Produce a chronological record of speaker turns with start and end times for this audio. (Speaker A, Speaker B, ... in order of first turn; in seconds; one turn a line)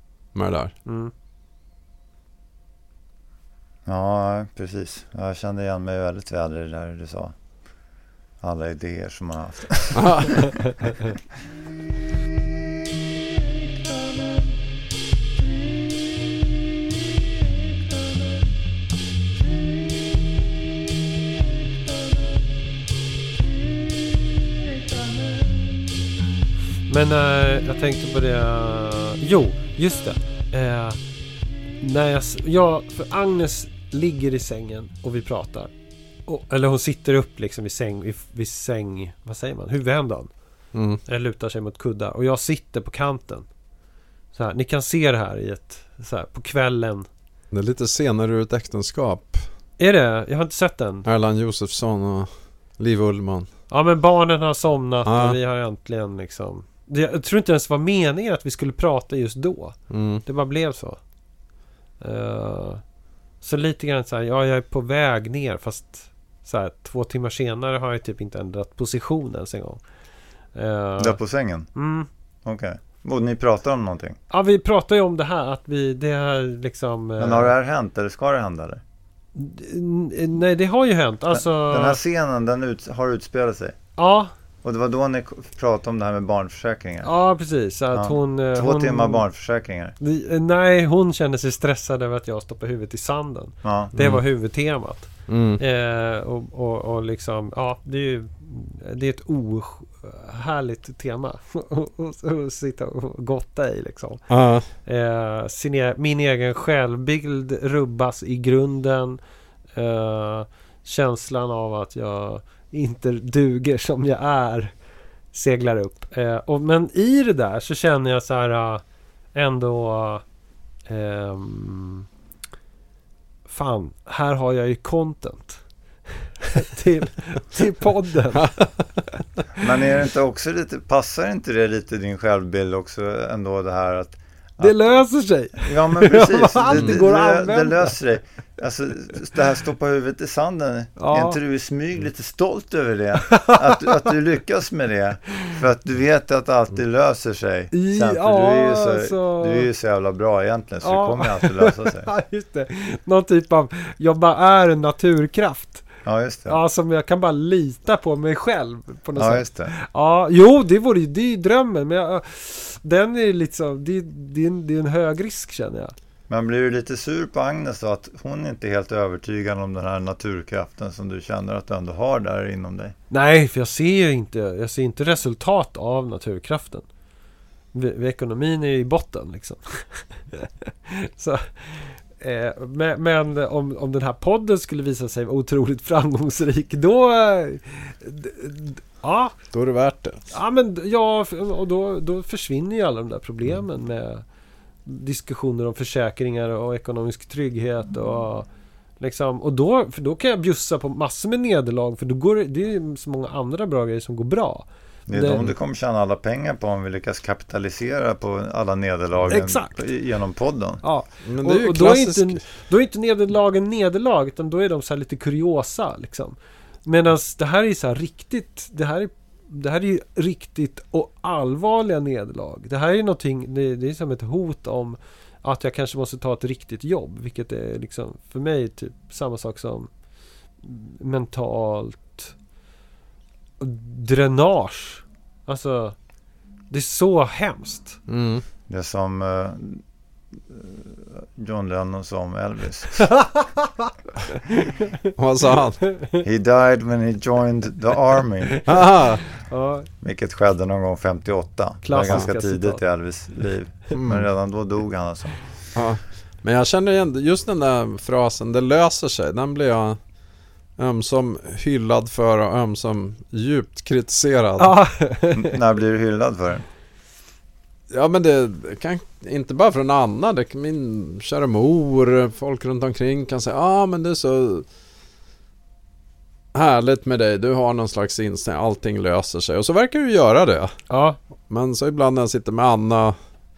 Speaker A: 0.3-0.7
Speaker B: 0.8-1.1
Speaker C: 3.9-7.3
Speaker C: 8.4-11.2
Speaker A: 9.9-10.6
Speaker B: 26.9-31.0
Speaker B: 31.8-35.7
Speaker B: 36.3-40.3
Speaker A: 40.7-41.0
Speaker B: 41.0-43.5
Speaker B: 44.3-47.1
Speaker A: 47.5-49.4
Speaker B: 49.8-51.0
Speaker A: 51.0-53.5
Speaker B: 53.7-61.0
Speaker A: 55.0-55.4
Speaker A: 59.9-60.2
Speaker B: 62.0-62.8
Speaker B: 63.4-69.8
Speaker B: 70.5-71.2
Speaker C: 71.0-71.7
Speaker B: 71.7-72.1
Speaker C: 72.4-74.2
Speaker B: 74.3-77.5
Speaker C: 77.2-78.8
Speaker B: 79.3-82.0
Speaker C: 81.3-83.8
Speaker B: 84.0-84.3
Speaker C: 84.6-87.1
Speaker B: 87.0-89.2
Speaker C: 87.9-90.0
Speaker B: 90.0-104.2
Speaker C: 93.6-93.9
Speaker A: 94.0-94.2
Speaker A: 95.3-95.6
Speaker A: 104.3-104.7
Speaker B: 104.8-109.2
Speaker B: 109.8-114.7
Speaker B: 115.3-118.8
Speaker B: 119.3-120.2
Speaker B: 120.9-122.1
Speaker B: 123.5-125.6
Speaker B: 126.4-128.5
Speaker A: 128.3-128.7
Speaker C: 129.6-134.9
Speaker B: 134.6-137.9
Speaker C: 135.6-152.1
Speaker A: 136.7-137.0
Speaker B: 141.0-141.4
Speaker B: 143.3-144.1
Speaker B: 147.7-149.7
Speaker B: 150.8-155.8
Speaker C: 156.0-156.6
Speaker B: 156.5-165.9
Speaker C: 159.2-159.7
Speaker C: 166.3-172.9
Speaker B: 173.1-176.8
Speaker B: 177.7-189.3
Speaker A: 189.5-190.2
Speaker B: 190.3-194.2
Speaker B: 194.8-198.5
Speaker B: 199.0-205.5
Speaker C: 205.1-210.8
Speaker B: 209.3-209.8
Speaker B: 210.8-229.9
Speaker A: 211.2-212.4
Speaker B: 230.6-232.3
Speaker B: 233.6-235.9
Speaker B: 236.7-238.0
Speaker A: 238.1-238.4
Speaker C: 238.7-239.8
Speaker C: 240.5-243.1
Speaker B: 243.0-245.1
Speaker A: 245.2-245.8
Speaker B: 245.8-246.2
Speaker C: 246.2-248.7
Speaker B: 248.4-249.9
Speaker A: 248.6-249.2
Speaker C: 250.0-255.3
Speaker B: 251.8-252.8
Speaker A: 253.9-254.3
Speaker A: 255.7-260.0
Speaker A: 260.8-264.8
Speaker B: 264.6-265.6
Speaker C: 265.3-266.6
Speaker A: 267.9-274.6
Speaker A: 276.5-280.8
Speaker B: 280.9-281.2
Speaker A: 281.5-283.1